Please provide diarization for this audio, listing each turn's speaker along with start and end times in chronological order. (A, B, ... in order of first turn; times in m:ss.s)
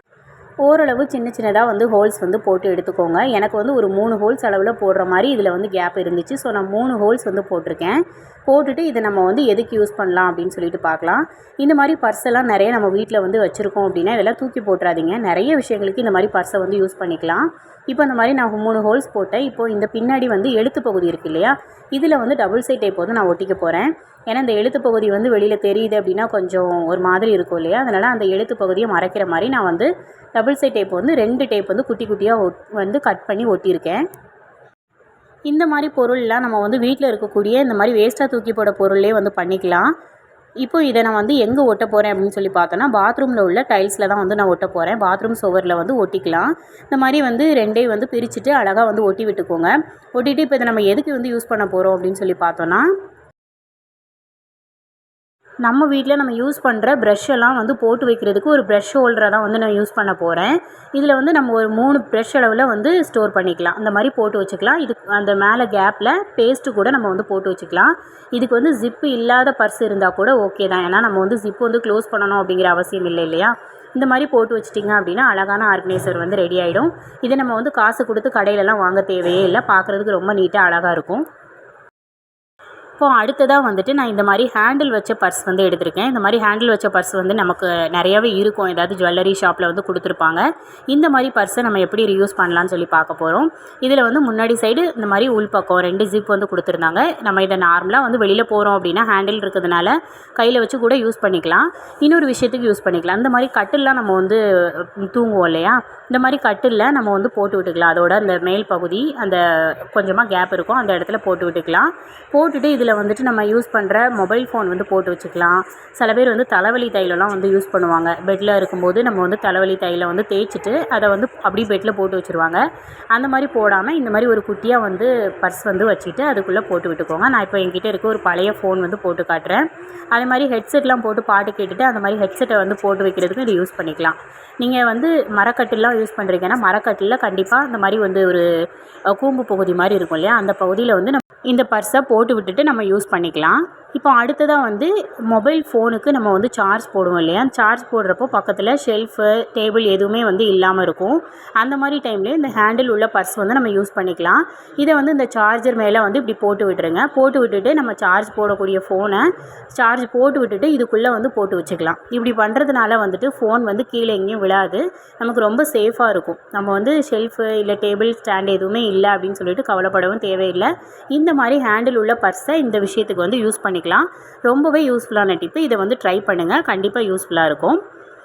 0:00.6-0:34.0 A
0:35.5-0:39.9 A
0:40.6-0:52.9 A
0:55.6-1:21.2 A
1:23.0-2:18.5 A
2:19.1-2:57.8 A